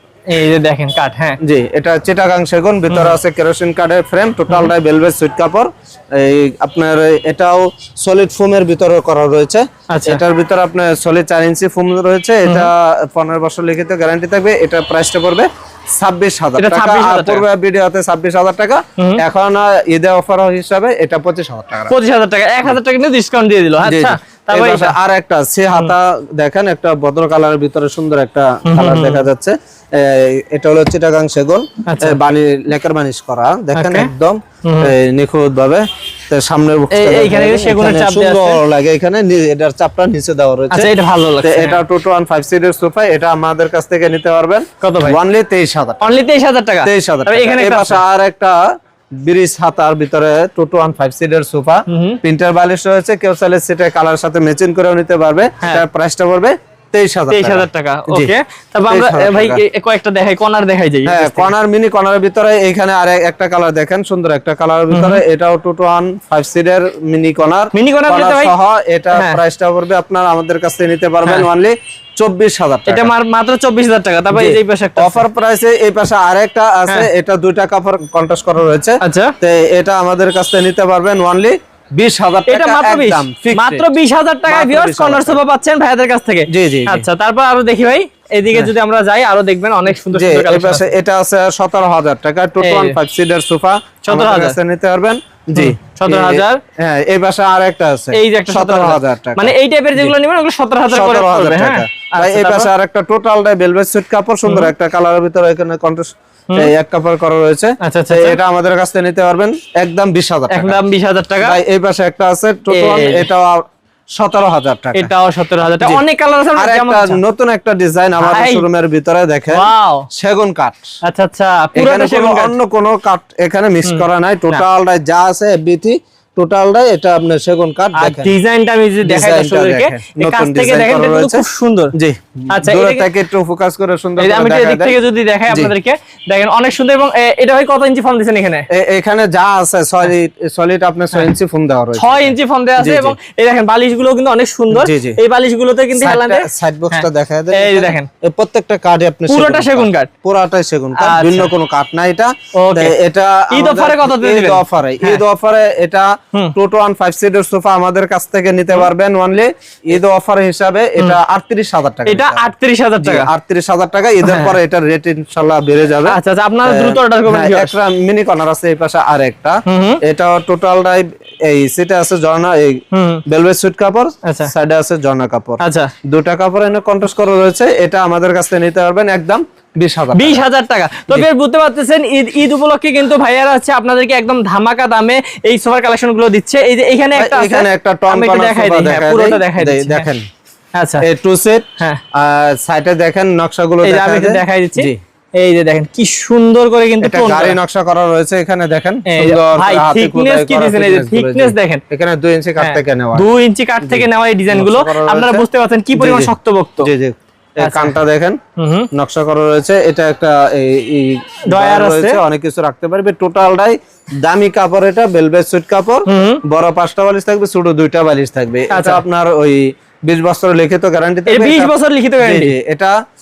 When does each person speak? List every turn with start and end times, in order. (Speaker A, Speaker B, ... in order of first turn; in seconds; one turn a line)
Speaker A: 0.3-1.4
Speaker B: 1.4-21.9
Speaker A: 2.9-3.2
Speaker A: 9.9-10.2
Speaker A: 16.6-17.4
Speaker A: 19.0-19.2
Speaker A: 21.9-24.9
Speaker B: 23.8-46.1
Speaker A: 28.7-29.3
Speaker A: 31.9-32.2
Speaker A: 33.8-34.1
Speaker A: 34.6-34.9
Speaker A: 36.9-38.6
Speaker A: 40.7-41.8
Speaker A: 44.8-45.2
Speaker A: 46.0-48.0
Speaker B: 46.9-58.3
Speaker A: 51.9-52.2
Speaker A: 57.3-61.5
Speaker B: 58.9-59.6
Speaker B: 61.0-73.1
Speaker A: 64.9-65.2
Speaker A: 67.8-68.5
Speaker A: 69.1-69.4
Speaker A: 72.9-75.2
Speaker B: 74.3-83.9
Speaker A: 79.0-79.3
Speaker A: 82.5-90.9
Speaker B: 84.5-85.4
Speaker B: 86.5-87.1
Speaker B: 90.1-100.2
Speaker A: 92.6-93.0
Speaker A: 94.1-94.6
Speaker A: 95.6-96.6
Speaker A: 98.1-102.7
Speaker B: 100.9-110.8
Speaker A: 104.5-104.7
Speaker A: 107.8-108.4
Speaker A: 110.5-111.6
Speaker B: 111.4-113.7
Speaker A: 112.7-113.3
Speaker B: 114.2-115.1
Speaker A: 115.0-117.2
Speaker B: 116.6-120.8
Speaker A: 118.2-118.7
Speaker A: 119.5-120.1
Speaker A: 121.0-122.5
Speaker B: 121.8-128.3
Speaker A: 123.8-124.6
Speaker A: 128.0-131.9
Speaker B: 129.0-135.0
Speaker A: 132.5-133.1
Speaker A: 134.2-138.7
Speaker B: 138.7-143.2
Speaker A: 142.0-148.1
Speaker B: 144.7-145.2
Speaker B: 145.9-162.5
Speaker A: 149.3-150.1
Speaker A: 151.0-151.5
Speaker A: 152.6-152.9
Speaker A: 153.5-155.2
Speaker A: 162.1-163.3
Speaker B: 163.0-180.4
Speaker A: 164.2-164.6
Speaker A: 166.1-167.7
Speaker A: 169.7-170.0
Speaker A: 172.9-173.2
Speaker A: 174.2-174.5
Speaker A: 175.6-175.9
Speaker A: 180.1-190.1
Speaker B: 187.2-190.2
Speaker A: 190.8-191.1
Speaker B: 191.0-195.0
Speaker A: 193.8-197.6
Speaker B: 197.0-203.3
Speaker A: 199.1-201.8
Speaker A: 202.6-206.9
Speaker B: 203.8-205.4
Speaker B: 206.0-208.4
Speaker A: 207.6-207.9
Speaker A: 208.6-208.9
Speaker B: 208.9-222.9
Speaker A: 211.5-212.2
Speaker A: 216.1-216.4
Speaker A: 218.7-219.0
Speaker A: 221.3-222.5